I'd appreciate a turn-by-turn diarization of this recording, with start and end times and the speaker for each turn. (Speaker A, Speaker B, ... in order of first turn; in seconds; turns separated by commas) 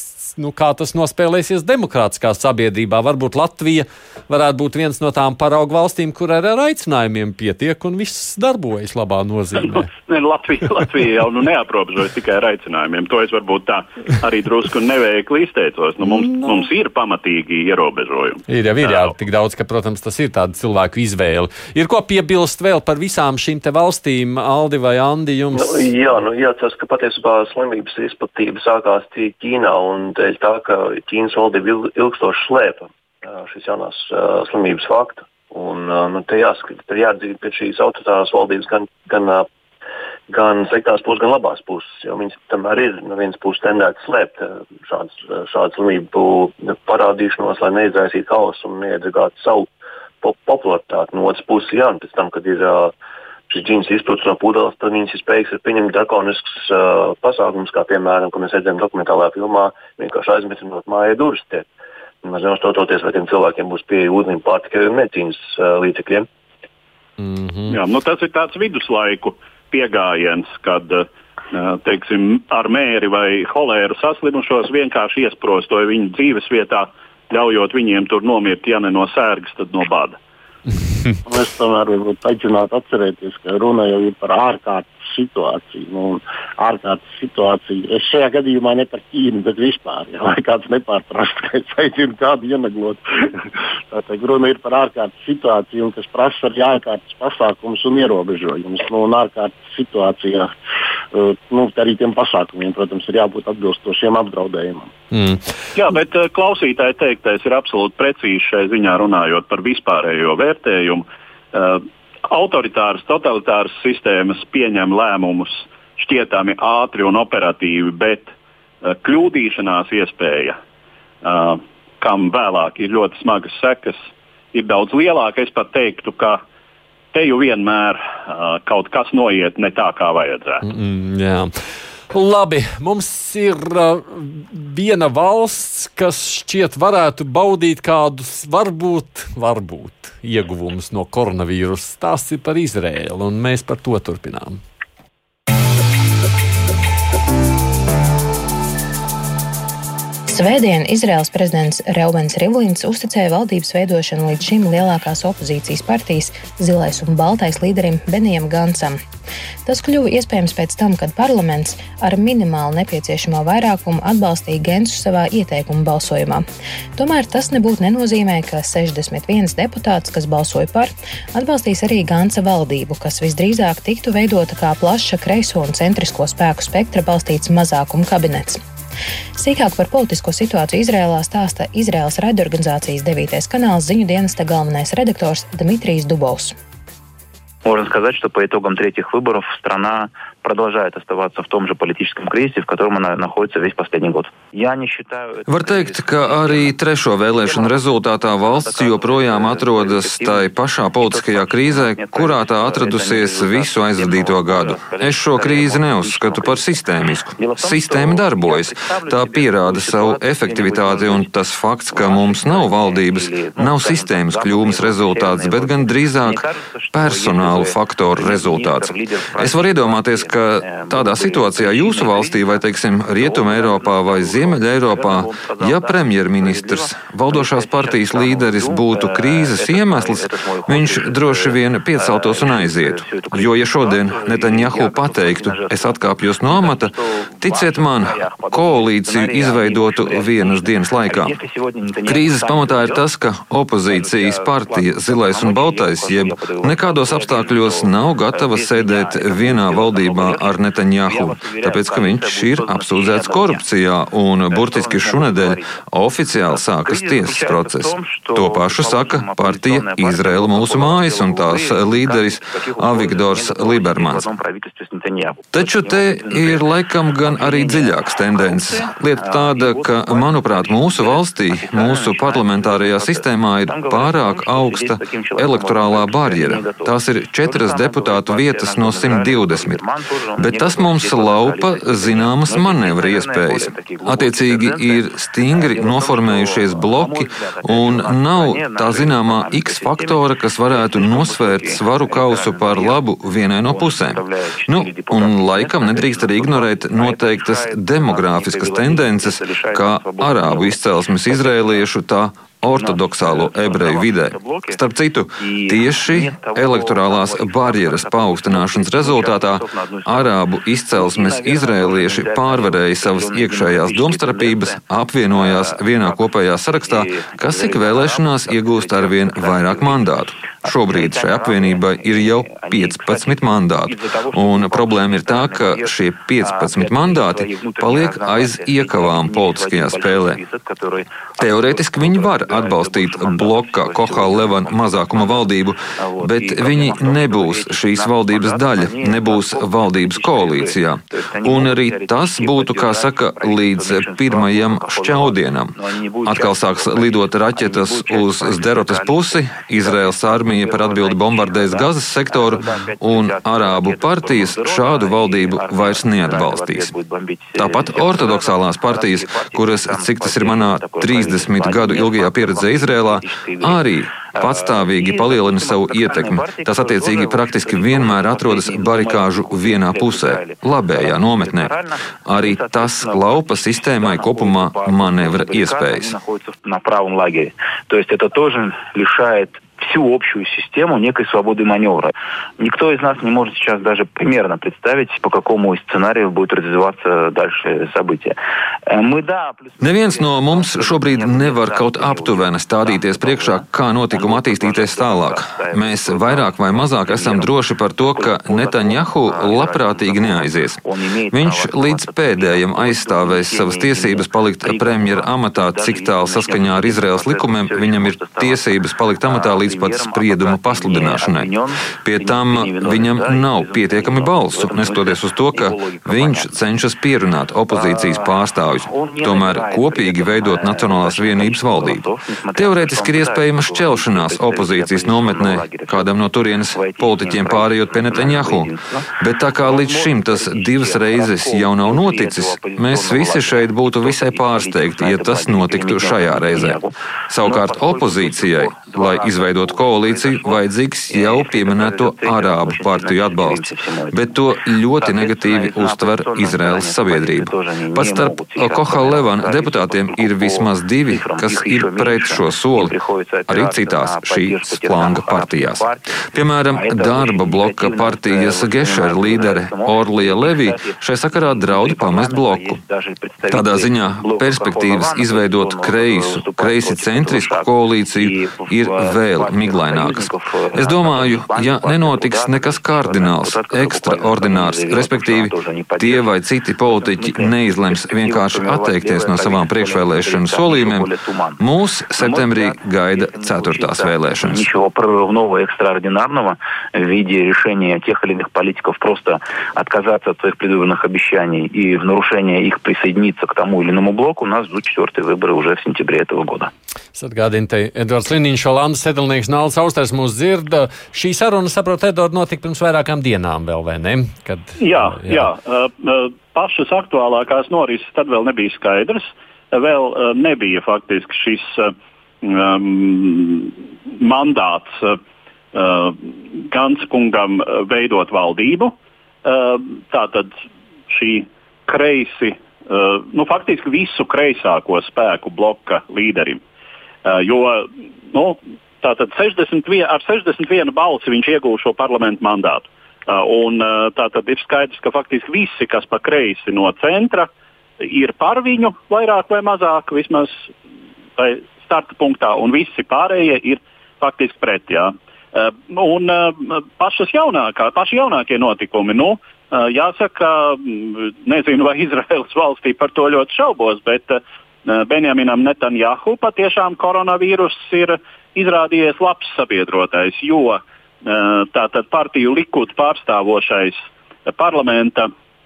Speaker A: 0.3-9.9, Speaker B: 9.6-19.1, Speaker A: 16.0-16.6, Speaker A: 18.5-25.8, Speaker C: 25.5-39.5, Speaker C: 40.3-49.7, Speaker C: 50.2-52.9, Speaker C: 53.5-61.6, Speaker C: 62.2-66.3, Speaker A: 67.2-67.8, Speaker B: 67.7-80.2, Speaker D: 81.3-100.5, Speaker D: 101.1-104.9, Speaker A: 105.1-105.4, Speaker B: 105.8-120.5, Speaker B: 121.2-126.4, Speaker B: 127.1-130.6, Speaker A: 130.6-131.5, Speaker A: 132.1-144.6, Speaker E: 150.3-159.0, Speaker E: 159.7-166.4, Speaker E: 167.0-178.6, Speaker E: 179.3-186.5, Speaker F: 187.6-196.8, Speaker G: 195.5-241.3, Speaker F: 197.3-211.3, Speaker F: 211.9-243.0, Speaker G: 242.1-264.3, Speaker F: 243.8-253.6, Speaker F: 254.5-255.8, Speaker F: 256.5-293.0, Speaker G: 265.5-279.8, Speaker G: 280.4-330.4, Speaker F: 293.6-301.9, Speaker F: 302.7-304.8, Speaker F: 305.4-310.4, Speaker F: 310.9-408.7, Speaker G: 331.4-356.9, Speaker G: 357.5-371.7, Speaker G: 372.2-376.1, Speaker G: 389.8-400.8, Speaker G: 401.3-452.9, Speaker F: 409.2-416.6, Speaker F: 417.7-444.3, Speaker F: 445.0-456.1, Speaker G: 453.5-462.8, Speaker F: 456.7-476.3, Speaker G: 463.5-484.7, Speaker F: 476.8-481.6, Speaker F: 482.1-496.7, Speaker A: 497.1-505.5, Speaker B: 504.8-515.2, Speaker B: 515.7-518.9, Speaker B: 519.4-520.5, Speaker B: 521.1-526.6, Speaker B: 527.2-540.7, Speaker B: 541.4-565.3